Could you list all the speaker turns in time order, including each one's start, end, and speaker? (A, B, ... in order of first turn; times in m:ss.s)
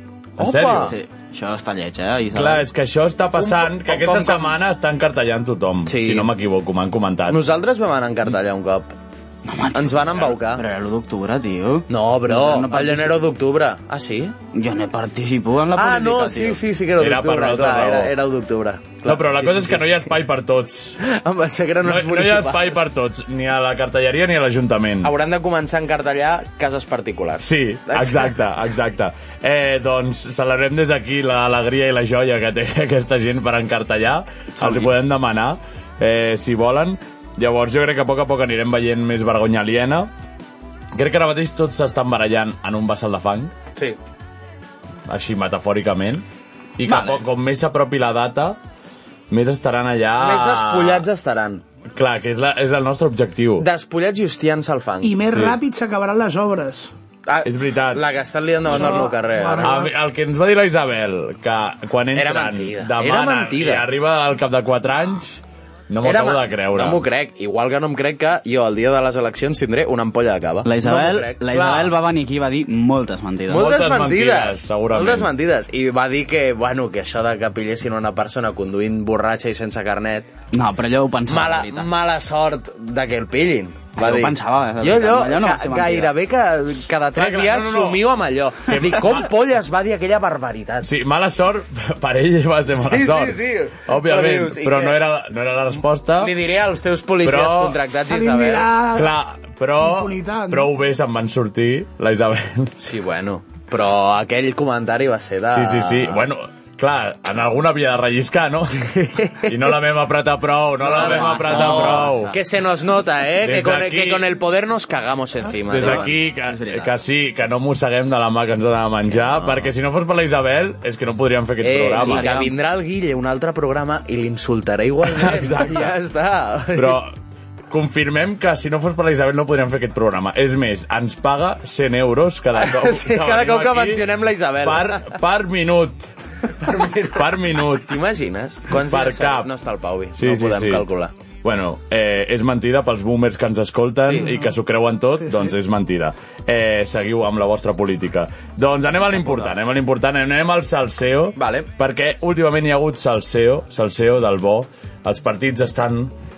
0:00.4-0:00.9 A
0:00.4-0:00.9 B
0:00.6-0:02.6 C
0:02.3-0:07.4 B
0:03.4-0:04.6 A
0:05.9-0:06.3 A
0:07.3-0:08.9 A
0:09.4-0:13.2 C
0:09.7-0:10.6 A
0:11.9-0:14.3 A
0:14.5-0:16.6 C
0:15.7-0:20.0 A
0:17.0-0:18.1 B
0:19.0-0:21.0 B
0:21.0-0:22.8 A
0:21.8-0:25.1 B
0:25.0-0:28.3 A
0:27.4-0:40.1 B
0:34.6-0:34.8 C
0:40.9-0:43.5 B
0:45.1-0:46.2 B
0:46.8-0:48.6 B
0:46.9-0:47.2 A
0:49.3-0:51.1 B
0:50.2-0:51.6 A
0:51.9-0:53.7 B
0:53.6-0:55.2 A
0:55.0-0:56.9 D
0:55.3-0:55.6 B
0:57.2-0:59.9 A
0:57.4-0:58.0 B
0:58.7-0:59.9 D
0:59.6-1:07.1 B
1:02.1-1:03.8 A
1:06.0-1:11.9 A
1:10.6-1:13.7 C
1:13.5-1:20.3 A
1:13.5-1:15.3 B
1:20.5-1:21.9 C
1:21.3-1:30.9 A
1:24.0-1:26.1 C
1:27.1-1:28.1 B
1:28.6-1:29.3 B
1:30.8-1:36.3 B
1:32.8-1:35.0 A
1:36.2-1:38.7 A
1:37.2-1:37.8 B
1:38.0-1:39.1 D
1:39.0-1:42.7 B
1:39.8-1:40.7 D
1:42.8-1:46.2 A
1:45.5-1:52.4 B
1:49.0-1:49.5 A
1:50.8-1:52.4 C
1:50.8-1:56.1 A
1:53.4-1:54.4 B
1:55.6-1:56.9 C
1:55.7-2:02.3 B
1:59.2-1:59.7 A
2:01.6-2:07.0 A
2:01.9-2:02.5 C
2:05.0-2:06.0 B
2:06.7-2:07.1 B
2:07.7-2:14.1 B
2:12.6-2:15.1 A
2:14.6-2:16.1 B
2:16.6-2:21.1 A
2:17.1-2:18.0 B
2:18.7-2:19.5 B
2:20.1-2:20.9 B
2:21.4-2:36.1 B
2:31.4-2:31.7 A